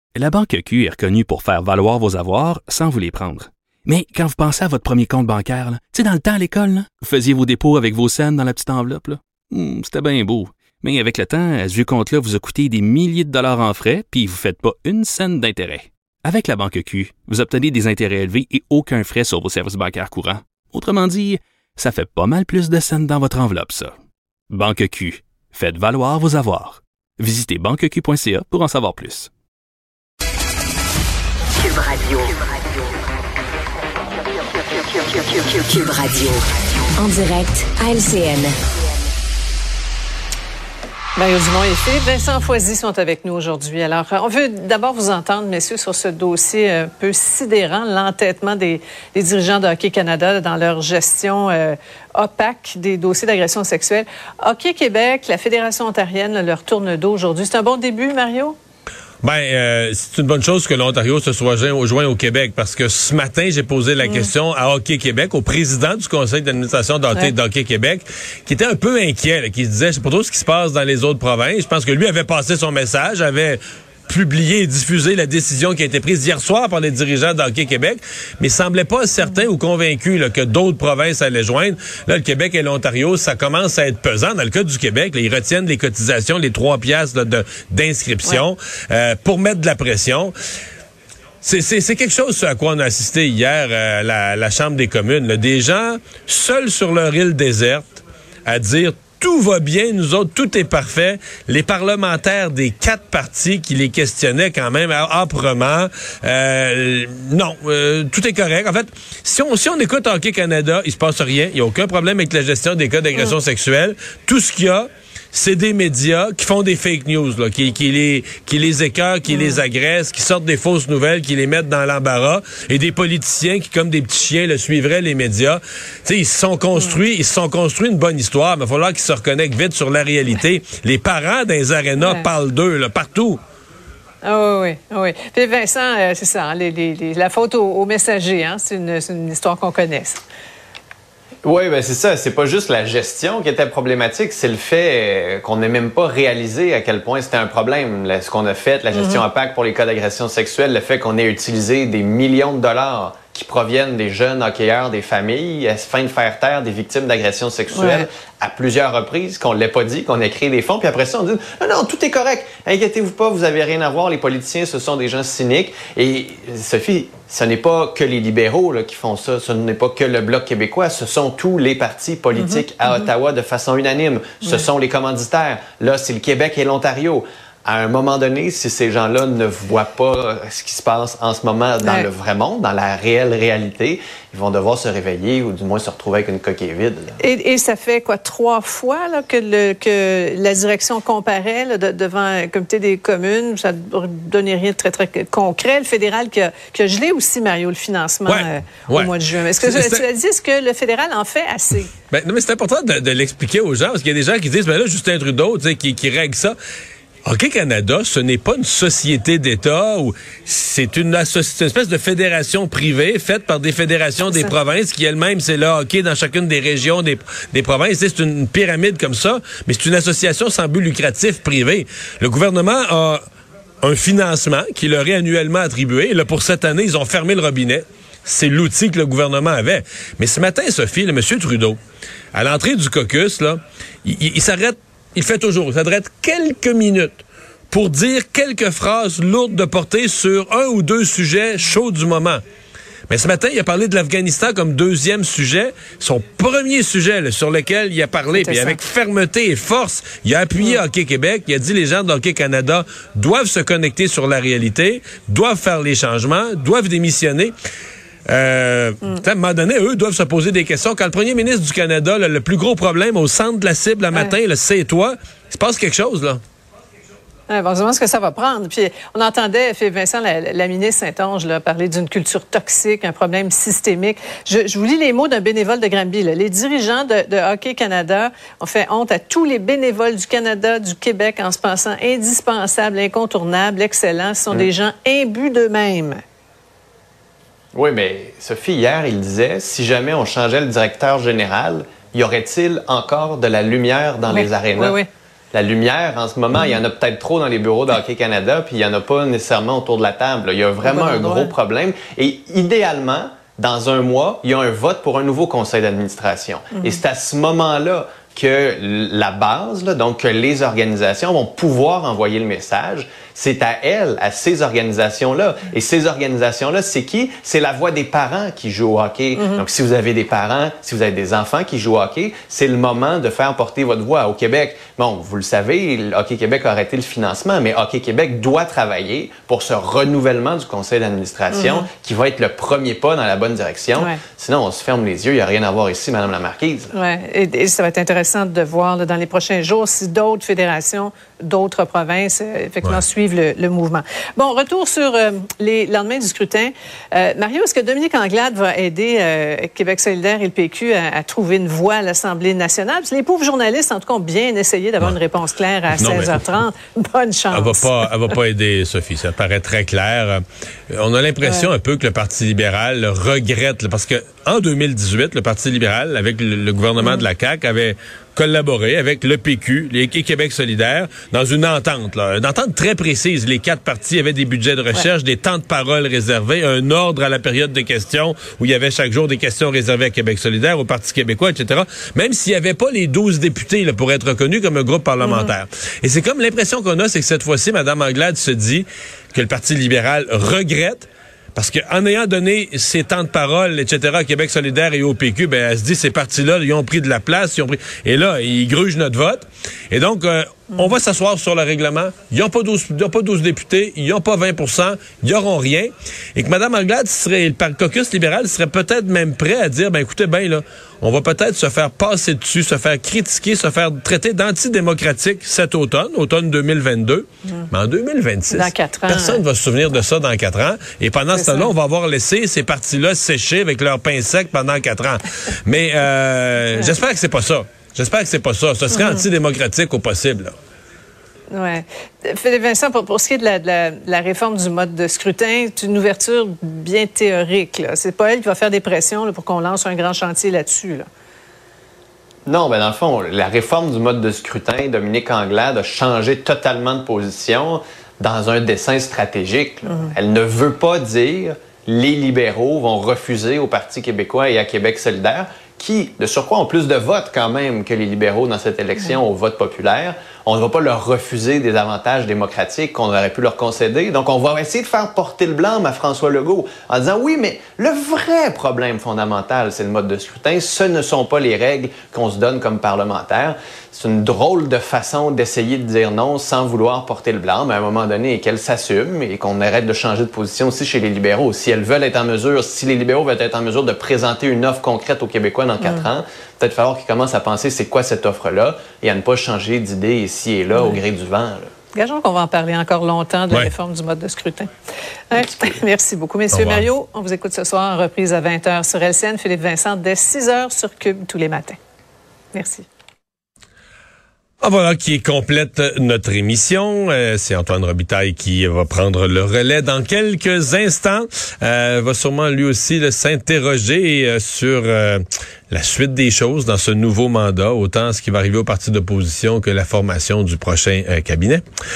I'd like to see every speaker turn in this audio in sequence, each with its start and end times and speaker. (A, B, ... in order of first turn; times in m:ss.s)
0:00.2-0:24.0 A
0:24.5-0:29.3 A
0:35.6-0:36.4 B
0:37.0-0:38.6 B
0:41.2-0:58.6 C
0:59.2-1:30.3 D
1:04.0-1:04.3 C
1:31.4-2:13.4 D
1:59.3-1:59.6 C
2:12.0-2:12.3 C
2:14.2-2:20.2 C
2:21.4-3:07.2 E
2:28.9-2:29.2 C
2:37.7-2:38.1 C
2:52.4-2:53.0 C
3:01.8-3:02.1 C
3:07.2-3:21.9 C
3:18.3-3:20.0 D
3:22.1-3:26.6 D
3:27.2-3:43.2 D
3:43.8-3:51.8 D
3:52.3-4:02.4 D
4:03.1-4:17.6 D
4:08.3-4:08.8 C
4:18.3-4:26.4 D
4:27.5-4:46.2 C
4:47.7-4:55.0 E
4:54.3-4:55.1 C
4:55.5-5:36.9 E
5:00.8-5:01.5 C
5:06.7-5:07.0 C
5:19.4-5:19.6 C
5:31.5-5:31.9 C
5:36.9-5:57.9 C
5:56.0-5:56.3 D
5:57.5-7:10.5 D
6:01.4-6:01.7 C
6:07.0-6:07.2 C
6:25.2-6:25.5 C
6:58.5-6:59.4 C
7:01.4-7:01.7 C
7:08.9-7:09.2 C
7:11.5-7:21.1 C
7:22.5-8:11.7 E
8:11.9-8:14.7 C
8:15.3-8:21.8 C
8:16.5-8:16.8 D
8:22.5-8:22.9 C
8:24.6-8:41.6 D